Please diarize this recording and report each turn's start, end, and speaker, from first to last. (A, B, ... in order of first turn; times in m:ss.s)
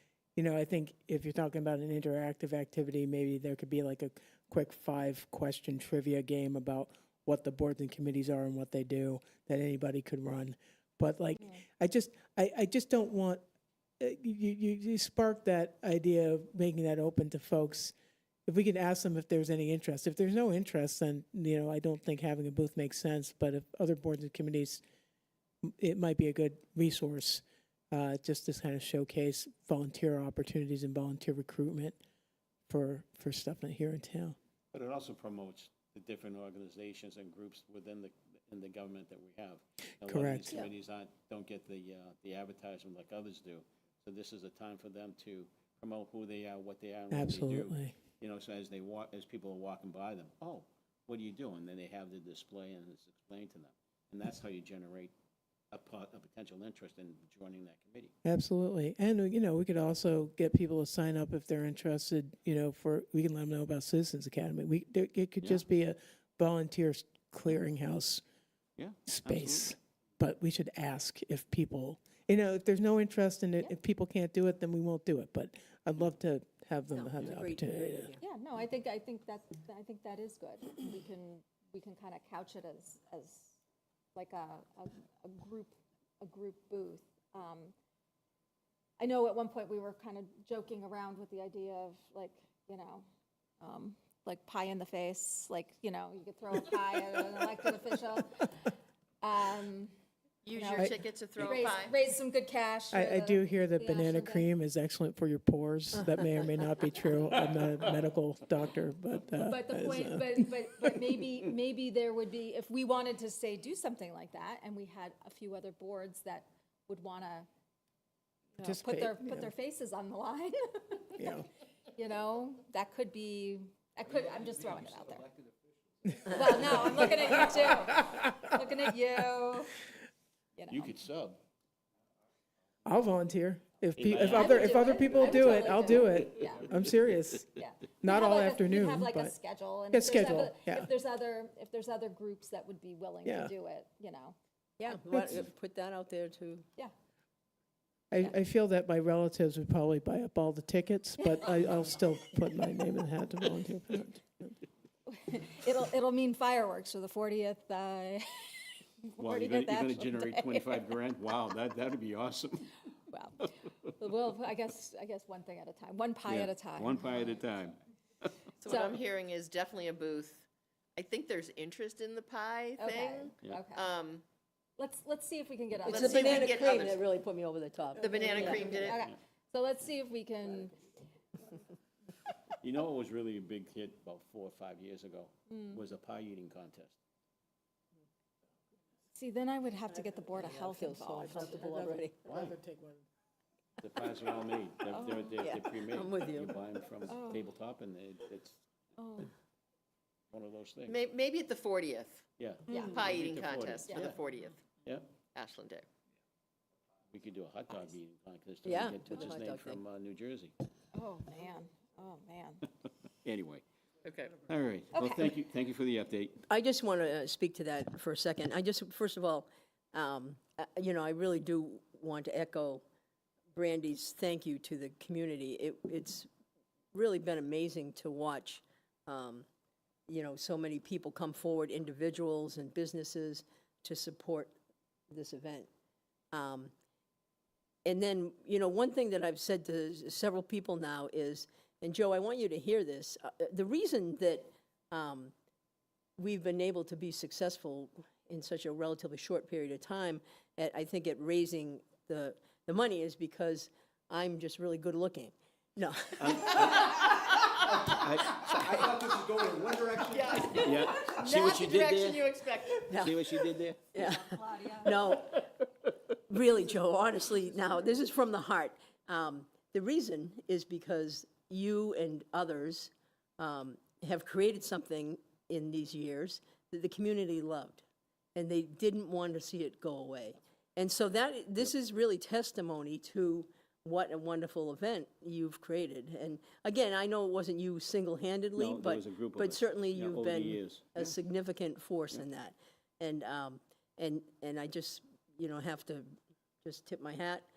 0:00.4-0:13.4 A
0:14.0-0:17.9 A
0:18.5-0:24.8 A
0:25.6-0:32.0 A
0:32.7-0:34.4 A
0:34.7-0:55.1 B
0:40.0-0:40.5 A
0:47.1-0:47.9 A
0:55.7-0:58.1 B
0:58.2-1:08.2 A
1:08.8-1:09.7 B
1:09.1-1:18.1 A
1:16.9-1:18.2 C
1:18.2-1:23.6 D
1:24.1-1:27.7 D
1:29.0-1:33.0 D
1:33.6-1:39.9 D
1:40.4-1:42.0 E
1:40.5-1:44.5 D
1:42.9-1:50.4 A
1:49.4-1:57.5 D
1:58.6-2:01.3 D
1:58.6-1:59.5 A
2:01.2-2:01.5 A
2:01.9-2:05.3 D
2:06.2-2:09.8 D
2:10.6-2:10.9 D
2:10.7-2:11.4 B
2:12.8-2:19.3 A
2:14.0-2:15.9 B
2:14.2-2:16.6 D
2:17.5-2:24.4 D
2:19.9-2:20.9 A
2:23.2-2:23.5 A
2:24.8-2:26.6 C
2:24.9-2:25.2 D
2:28.1-2:34.6 A
2:35.1-2:40.9 D
2:39.2-2:42.8 B
2:43.1-2:47.3 D
2:46.2-2:48.5 B
2:48.6-2:54.2 E
2:48.6-2:49.0 D
2:52.8-2:53.8 D
2:54.8-2:56.6 D
2:55.8-2:58.9 C
2:55.8-2:57.0 E
2:58.0-2:59.1 E
2:58.2-3:00.8 D
3:02.6-3:07.0 B
3:05.5-3:05.8 D
3:09.1-3:11.6 D
3:10.3-3:12.1 C
3:11.2-3:13.0 A
3:12.2-3:12.5 B
3:13.8-3:18.6 B
3:14.9-3:15.4 D
3:15.4-3:16.5 C
3:17.1-3:17.5 D
3:19.0-3:19.3 D
3:20.3-3:21.0 B
3:20.8-3:22.2 E
3:22.4-3:24.2 B
3:22.7-3:23.0 D
3:22.8-3:24.7 E
3:24.8-3:25.2 B
3:25.2-3:25.9 E
3:27.1-3:30.5 B
3:28.6-3:29.8 C
3:30.9-3:32.6 D
3:33.2-3:33.6 B
3:34.0-3:34.4 E
3:34.4-3:36.4 B
3:34.9-3:35.3 D
3:36.5-3:42.8 C
3:43.5-3:46.3 C
3:46.9-3:49.4 C
3:50.1-3:54.5 C
3:55.1-3:55.7 C
3:56.3-3:56.7 C
3:57.8-4:05.3 C
4:06.2-4:16.6 C
4:16.2-4:17.1 B
4:16.9-4:18.5 E
4:17.7-4:20.6 F
4:17.9-4:18.8 B
4:20.0-4:22.9 E
4:20.5-4:23.9 B
4:22.9-4:23.3 C
4:23.9-4:25.5 C
4:24.0-4:24.9 D
4:26.3-4:37.8 C
4:38.3-4:56.1 C
4:48.6-4:51.1 B
4:56.6-4:57.4 C